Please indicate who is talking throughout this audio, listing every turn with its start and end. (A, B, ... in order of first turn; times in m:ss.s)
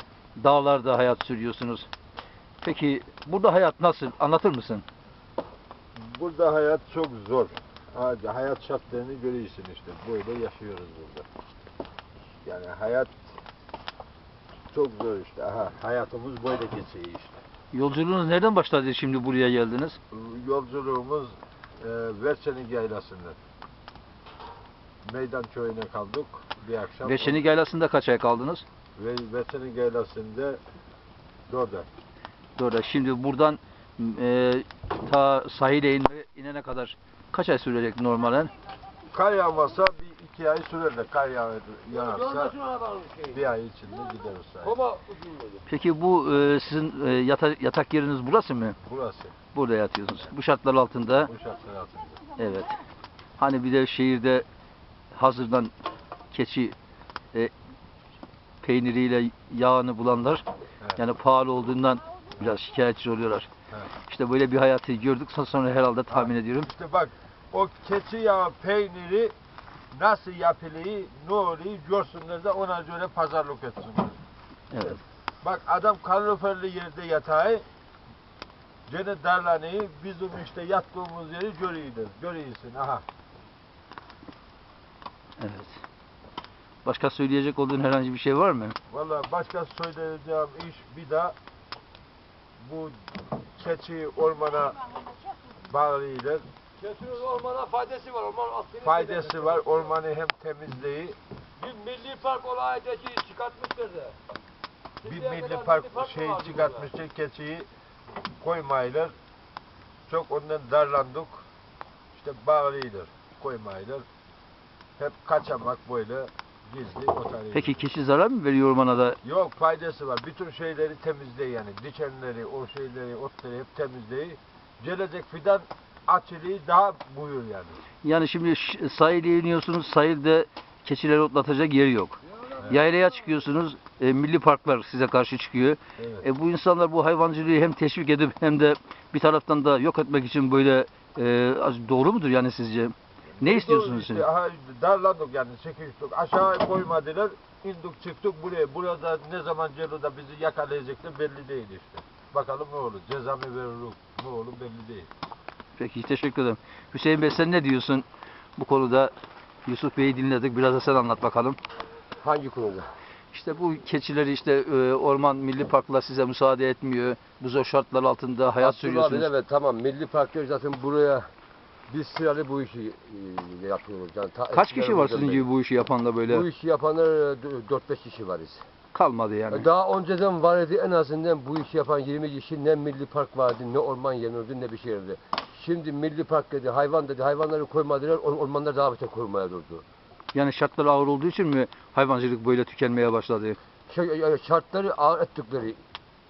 0:00.4-0:01.9 A
0:02.6-0:04.8 A
0:06.0-0:11.2 B
0:12.4-0:13.3 B
0:14.7-0:17.4 B
0:17.7-0:20.0 A
0:20.1-0:23.4 B
0:25.0-0:27.4 B
0:27.0-0:28.6 A
0:29.0-0:30.6 B
0:31.5-0:31.9 B
0:32.6-0:38.5 A
0:39.1-0:42.6 B
0:42.1-0:43.3 C
0:43.3-0:44.9 B
0:44.8-0:45.6 C
0:45.7-0:48.8 A
0:48.8-0:49.3 B
0:49.5-0:51.3 A
0:51.3-0:52.2 B
0:52.4-0:52.7 A
0:53.4-0:54.4 A
0:55.1-0:55.7 A
0:56.3-0:56.8 A
0:58.6-1:00.4 A
1:01.0-1:03.5 A
1:04.0-1:06.7 A
1:06.1-1:09.3 B
1:09.9-1:14.2 B
1:14.7-1:15.0 A
1:14.8-1:17.6 B
1:18.9-1:23.0 B
1:25.4-1:25.8 A
1:26.8-1:28.8 A
1:28.9-1:31.3 B
1:32.6-1:33.0 B
1:33.6-1:36.4 B
1:36.8-1:39.7 C
1:38.8-1:41.2 B
1:41.6-1:44.2 C
1:45.0-1:46.8 C
1:45.0-1:47.7 B
1:48.4-1:49.1 B
1:50.1-1:51.4 B
1:52.1-1:54.0 B
1:55.0-1:57.8 B
1:57.5-1:59.2 A
1:59.2-2:07.8 B
2:08.0-2:24.2 A
2:16.0-2:16.2 B
2:23.4-2:35.1 B
2:35.8-2:38.0 A
2:38.6-2:39.1 A
2:39.6-2:41.6 A
2:42.2-2:42.9 D
2:43.3-2:49.3 A
2:48.6-2:51.3 D
2:51.9-2:55.5 D
2:54.5-2:56.4 A
2:56.3-2:58.6 D
2:58.9-2:59.7 A
2:59.5-3:09.8 D
3:10.3-3:13.6 A
3:13.9-3:15.8 D